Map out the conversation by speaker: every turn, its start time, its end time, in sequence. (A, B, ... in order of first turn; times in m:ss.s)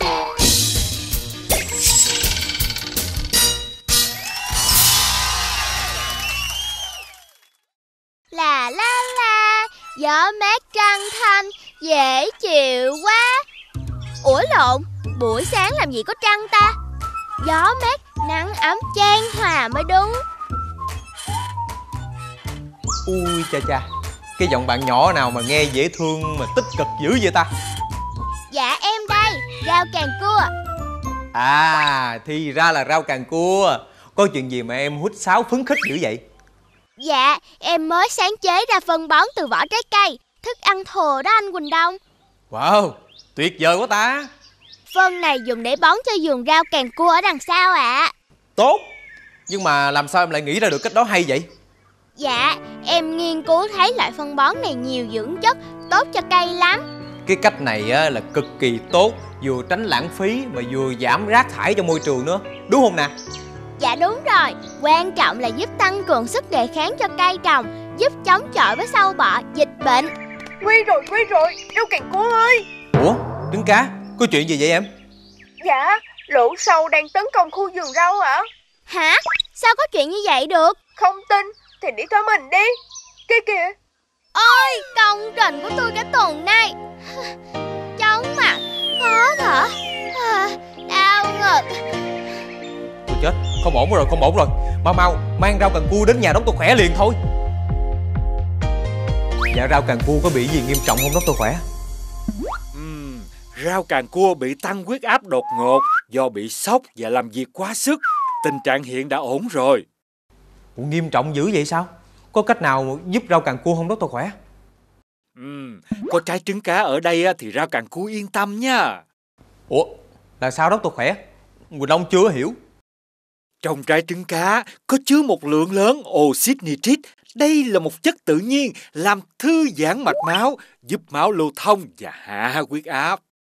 0:08.3-0:13.4 A
0:14.2-0:16.8 A
0:17.4-0:20.2 A
0:23.1-0:23.8 B
0:24.4-0:27.5 B
0:28.5-0:30.5 A
0:31.3-0:36.2 B
0:37.0-0:42.0 A
0:42.5-0:44.3 B
0:44.9-0:48.1 A
0:48.6-0:48.8 B
0:49.5-0:51.5 B
0:52.2-0:56.8 A
0:57.3-1:03.1 B
1:03.8-1:10.1 A
1:10.6-1:12.6 C
1:12.9-1:14.9 B
1:15.6-1:18.4 C
1:18.9-1:20.8 A
1:21.0-1:22.7 C
1:23.3-1:23.8 C
1:24.3-1:27.3 A
1:28.0-1:31.8 A
1:33.1-1:37.2 B
1:39.5-1:41.6 B
1:42.7-1:49.8 D
1:50.8-1:54.3 B
1:55.4-1:59.0 D
1:59.7-2:01.2 B
2:01.7-2:02.6 B
2:03.6-2:13.2 D